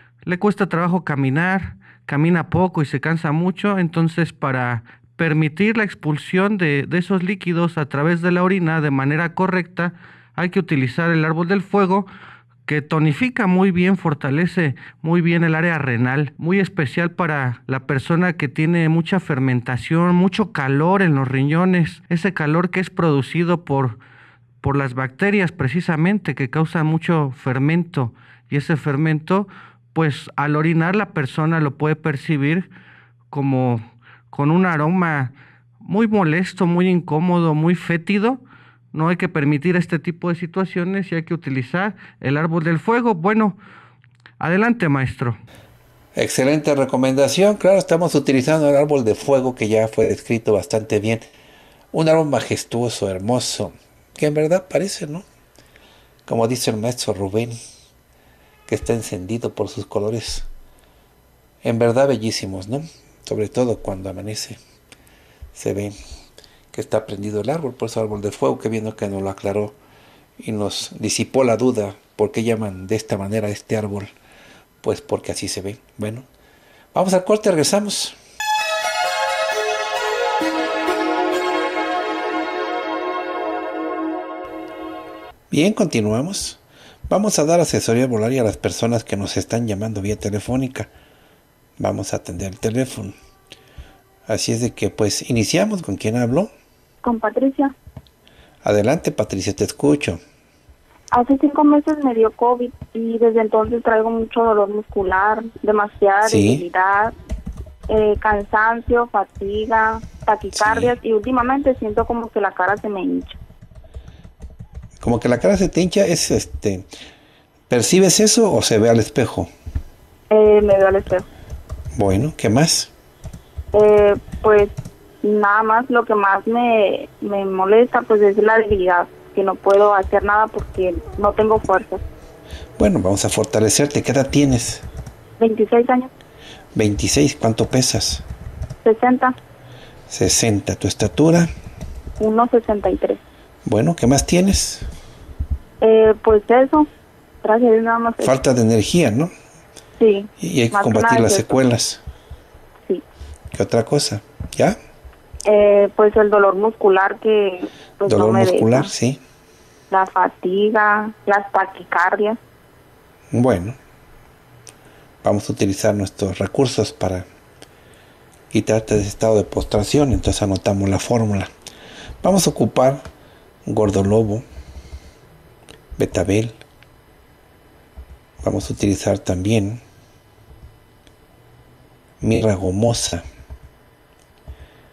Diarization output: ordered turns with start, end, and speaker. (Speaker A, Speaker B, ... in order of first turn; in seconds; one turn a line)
Speaker A: 0.2-12.1
Speaker A: 12.7-24.0
Speaker A: 24.6-32.7
Speaker A: 33.3-38.4
Speaker A: 38.9-43.6
Speaker A: 44.4-45.4
Speaker B: 46.2-51.3
Speaker B: 51.9-55.2
Speaker B: 56.3-57.6
Speaker B: 58.7-60.5
Speaker B: 61.6-64.6
Speaker B: 65.5-66.0
Speaker B: 66.7-69.8
Speaker B: 70.4-74.1
Speaker B: 74.8-76.3
Speaker B: 76.9-78.2
Speaker B: 85.5-90.9
Speaker B: 91.8-93.2
Speaker B: 94.3-96.5
Speaker C: 97.0-97.7
Speaker B: 98.6-100.2
Speaker C: 101.1-107.2
Speaker B: 106.2-106.7
Speaker C: 107.9-113.4
Speaker B: 110.5-110.9
Speaker B: 115.0-116.9
Speaker B: 117.7-119.5
Speaker C: 120.3-121.3
Speaker B: 122.0-122.9
Speaker C: 123.7-132.0
Speaker B: 132.8-134.8
Speaker C: 135.4-136.1
Speaker B: 136.8-138.2
Speaker C: 138.8-139.4
Speaker B: 140.1-141.5
Speaker C: 142.2-143.2
Speaker B: 143.7-144.9
Speaker C: 145.8-146.9
Speaker C: 147.4-148.3
Speaker B: 148.2-149.3
Speaker C: 150.0-151.5
Speaker B: 150.4-152.0
Speaker B: 153.5-154.8
Speaker C: 155.5-158.9
Speaker B: 158.1-159.2
Speaker C: 159.9-162.4
Speaker B: 163.3-163.8
Speaker B: 165.2-167.2
Speaker B: 168.5-171.5
Speaker B: 172.2-173.1
Speaker B: 173.7-174.4
Speaker B: 176.0-176.6
Speaker B: 178.4-179.8
Speaker B: 182.2-183.2